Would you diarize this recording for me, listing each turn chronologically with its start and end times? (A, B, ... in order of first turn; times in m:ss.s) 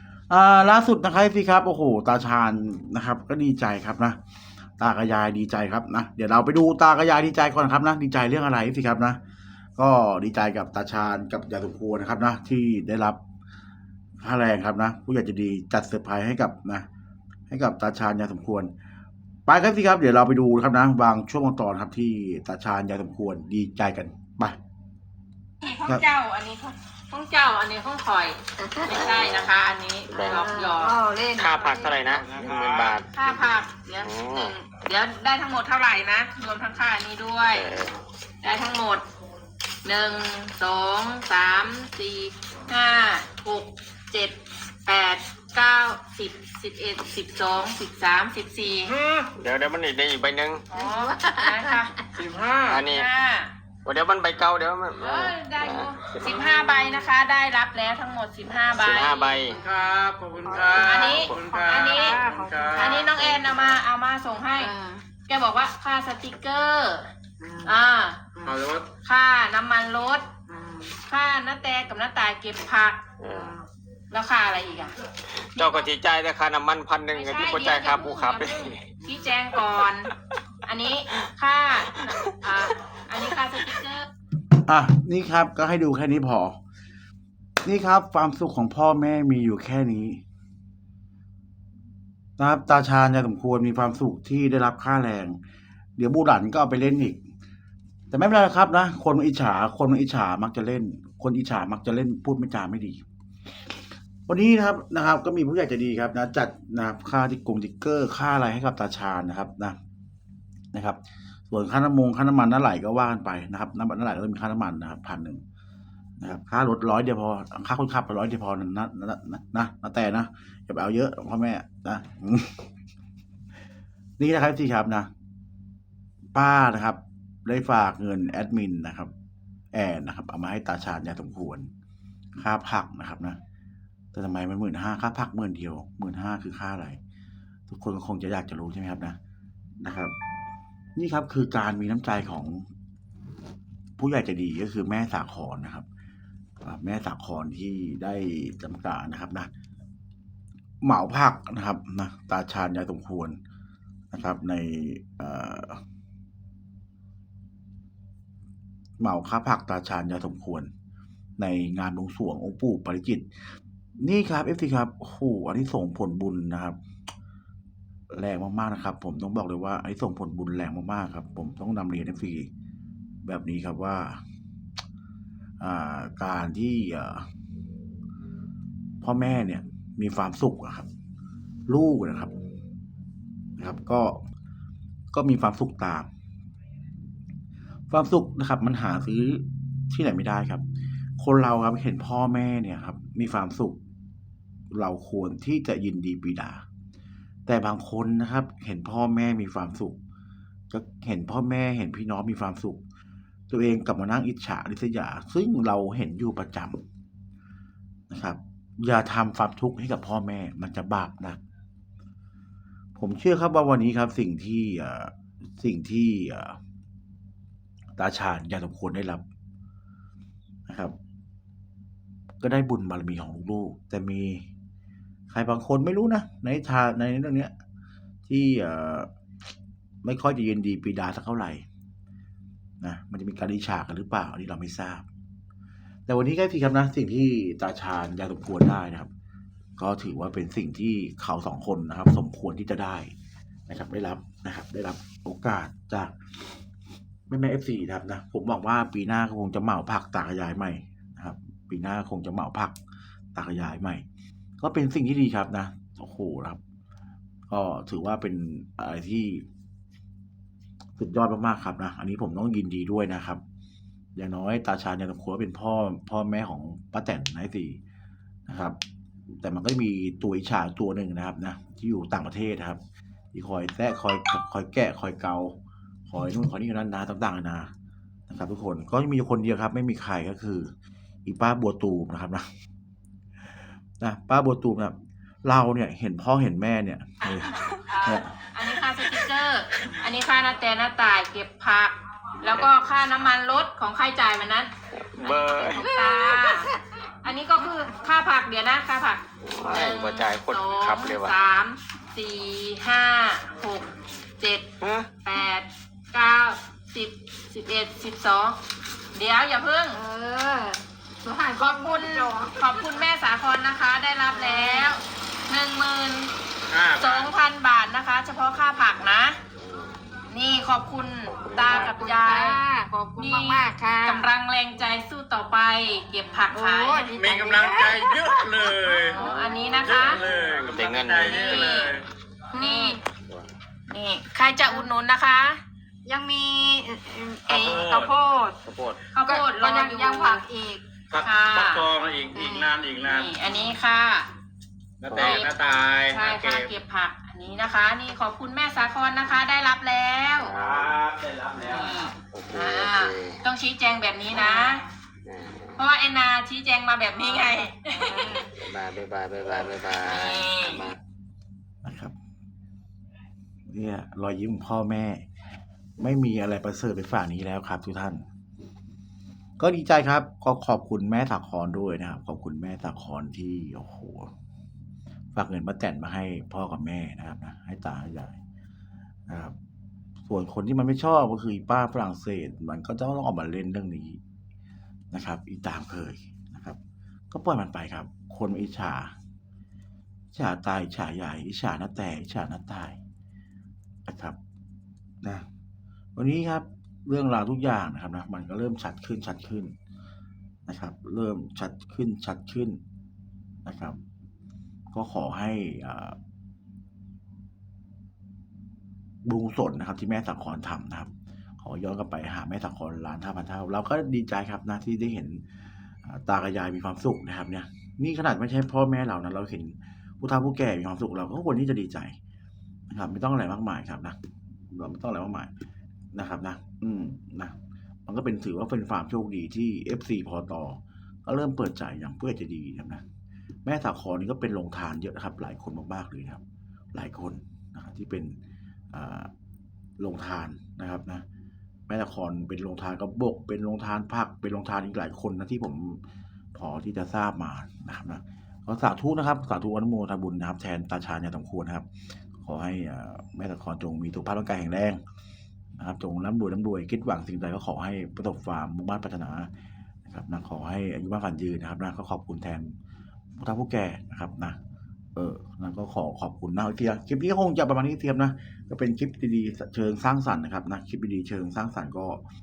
0:00.3-0:04.2 A
0:04.8-0:09.2 A
0:09.8-0:13.2 A
0:14.2-0:16.8 A
0:17.5-0:18.7 A
0:19.4-0:24.6 A
0:25.6-0:31.0 B
0:28.6-0:29.3 C
0:29.0-0:29.5 D
0:30.1-0:30.4 D
0:30.2-0:32.1 C
0:31.3-0:33.1 D
0:32.1-0:33.2 E
0:33.1-0:37.7 B
0:34.0-0:34.5 D
0:37.5-0:38.0 D
0:38.4-0:39.0 B
0:39.8-0:48.9 B
0:48.9-0:49.3 E
0:49.4-0:50.6 D
0:50.7-0:52.0 B
0:50.7-0:51.8 C
0:52.1-0:52.8 E
0:52.7-0:53.1 D
0:52.8-0:53.5 B
0:53.8-0:56.5 D
0:55.0-0:59.4 B
0:56.3-0:57.1 C
0:58.8-0:59.6 D
0:59.5-0:59.9 C
0:59.6-1:03.8 E
1:00.4-1:03.6 C
1:00.7-1:02.2 B
1:02.7-1:04.7 B
1:04.6-1:05.1 C
1:05.2-1:07.1 B
1:07.4-1:07.8 C
1:07.6-1:08.3 B
1:08.4-1:08.9 E
1:09.0-1:10.3 B
1:10.5-1:11.0 C
1:11.1-1:13.0 B
1:13.2-1:13.5 D
1:13.3-1:13.6 C
1:14.1-1:15.0 B
1:15.5-1:18.9 D
1:15.6-1:15.9 B
1:17.1-1:20.1 B
1:20.6-1:24.1 B
1:24.6-1:26.6 A
1:27.6-1:30.2 A
1:32.4-1:35.4 A
1:36.0-1:37.2 A
1:38.1-1:43.0 A
1:44.3-1:49.8 A
1:50.7-1:55.4 A
1:56.2-2:02.7 A
2:04.2-2:05.1 A
2:06.3-2:09.1 A
2:09.7-2:11.7 A
2:12.4-2:13.4 A
2:14.1-2:17.0 A
2:17.7-2:19.2 A
2:19.8-2:20.1 A
2:21.0-2:22.7 A
2:24.0-2:25.8 A
2:26.6-2:29.5 A
2:30.8-2:33.4 A
2:34.1-2:35.8 A
2:39.0-2:40.7 A
2:41.4-2:43.3 A
2:44.0-2:46.8 A
2:48.1-2:52.5 A
2:53.2-2:54.2 A
2:55.6-2:57.2 A
2:59.0-3:00.9 A
3:01.7-3:02.3 A
3:03.6-3:04.2 A
3:05.1-3:06.1 A
3:07.9-3:10.6 A
3:11.2-3:13.8 A
3:14.7-3:16.6 A
3:17.4-3:20.0 A
3:20.7-3:22.8 A
3:23.5-3:26.8 A
3:28.1-3:31.4 A
3:32.9-3:36.6 A
3:38.0-3:39.2 A
3:40.7-3:41.0 A
3:42.4-3:44.4 A
3:45.3-3:47.5 A
3:48.3-3:49.1 A
3:50.0-3:51.6 A
3:52.8-3:55.0 A
3:56.1-3:59.1 A
3:59.8-4:03.1 A
4:03.7-4:06.2 A
4:07.3-4:12.8 A
4:13.3-4:14.0 A
4:14.6-4:16.6 A
4:17.5-4:19.4 A
4:21.0-4:23.4 A
4:24.1-4:27.8 A
4:28.5-4:28.8 A
4:29.3-4:32.8 A
4:33.3-4:37.7 A
4:38.3-4:40.7 A
4:41.2-4:42.5 A
4:44.0-4:48.3 A
4:47.3-5:04.6 B
4:52.4-4:52.7 D
4:54.9-4:55.8 D
4:55.8-4:56.8 C
4:59.4-5:01.4 D
5:04.8-5:05.1 D
5:05.2-5:08.6 B
5:09.1-5:10.0 B
5:09.9-5:13.0 C
5:11.6-5:16.3 B
5:14.3-5:15.0 C
5:16.7-5:17.3 E
5:17.0-5:19.4 B
5:19.6-5:20.0 D
5:20.3-5:22.6 B
5:21.4-5:22.0 D
5:21.6-5:24.3 C
5:23.2-5:27.2 B
5:26.2-5:29.8 C
5:27.1-5:32.0 E
5:29.0-5:30.2 B
5:29.2-5:31.8 D
5:30.3-5:30.6 C
5:31.2-5:32.0 B
5:32.5-5:33.0 C
5:32.6-5:33.0 B
5:33.3-5:33.5 D
5:33.9-5:35.6 B
5:34.6-5:34.9 C
5:36.0-5:38.6 C
5:37.5-5:38.1 E
5:38.6-5:39.0 D
5:39.1-5:40.4 B
5:39.2-5:40.8 C
5:41.1-5:43.4 E
5:41.2-5:41.9 B
5:42.3-5:42.8 C
5:43.0-5:44.3 B
5:43.4-5:43.8 C
5:45.0-5:46.7 E
5:45.1-5:45.5 D
5:45.1-5:50.5 B
5:50.4-5:51.0 D
5:50.6-5:51.9 E
5:51.6-5:54.8 B
5:52.3-5:53.4 D
5:54.3-5:54.9 C
5:55.2-5:55.8 D
5:55.8-5:58.4 B
5:57.2-5:58.5 C
5:58.5-6:01.0 D
6:00.0-6:00.8 B
6:01.8-6:02.1 A
6:03.7-6:05.2 A
6:06.0-6:08.2 A
6:09.6-6:14.3 A
6:15.3-6:18.4 A
6:19.3-6:19.6 A
6:20.2-6:24.2 A
6:25.1-6:26.8 A
6:27.3-6:29.1 A
6:30.3-6:33.0 A
6:34.0-6:34.4 A
6:36.2-6:39.7 A
6:40.7-6:42.8 A
6:43.6-6:44.0 A
6:44.9-6:46.2 A
6:49.2-7:02.2 A
7:02.9-7:04.2 A
7:04.7-7:05.5 A
7:06.1-7:13.0 A
7:13.6-7:16.4 A
7:16.9-7:18.4 A
7:18.9-7:19.3 A
7:20.0-7:21.2 A
7:21.9-7:35.0 A
7:35.8-7:39.5 A
7:40.0-7:42.8 A
7:43.4-7:44.6 A
7:45.1-7:52.2 A